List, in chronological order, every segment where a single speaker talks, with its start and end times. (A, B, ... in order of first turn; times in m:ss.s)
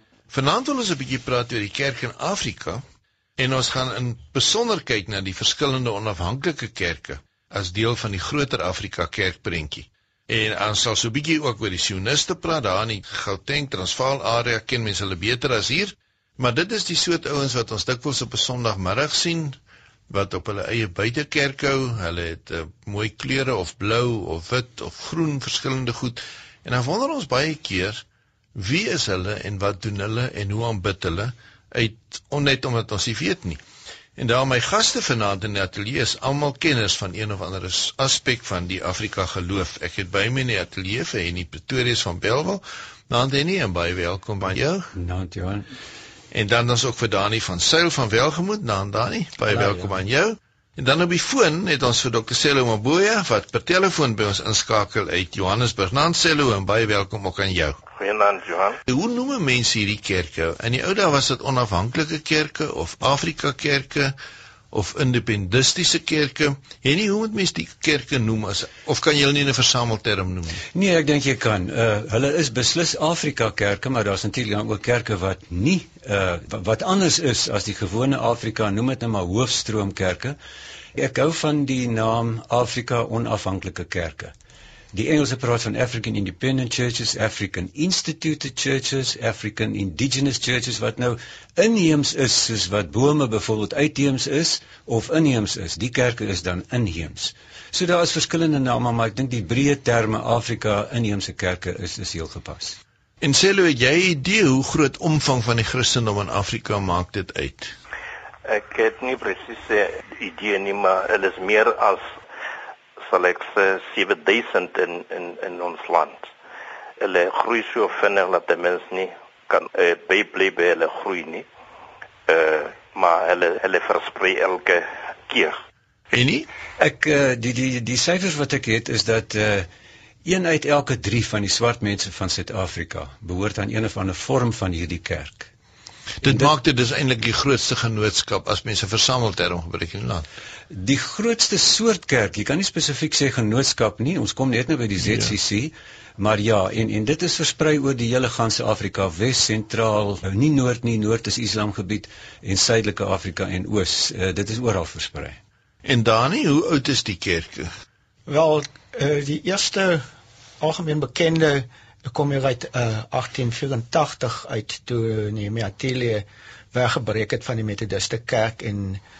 0:00.3-0:02.8 A
0:03.4-0:19.6 A
0:20.1-0:28.0 A
0:28.5-0:33.6 A
0:34.2-0:44.9 A
0:44.9-0:45.7 B
0:46.3-0:57.8 A
0:49.5-0:49.9 B
0:58.0-0:58.8 C
0:58.9-1:04.1 A
1:04.7-1:10.6 A
1:10.7-1:20.4 B
1:20.9-1:24.3 B
1:24.9-1:42.8 B
1:43.2-1:47.7 A
1:48.4-1:52.0 C
1:53.0-1:56.3 C
1:57.0-2:01.4 C
2:02.3-2:05.6 C
2:06.1-2:06.5 A
2:06.8-2:09.7 B
2:10.2-2:15.5 B
2:16.2-2:20.2 A
2:20.7-2:35.4 B
2:35.8-2:37.7 A
2:38.3-2:40.0 D
2:40.6-2:49.0 D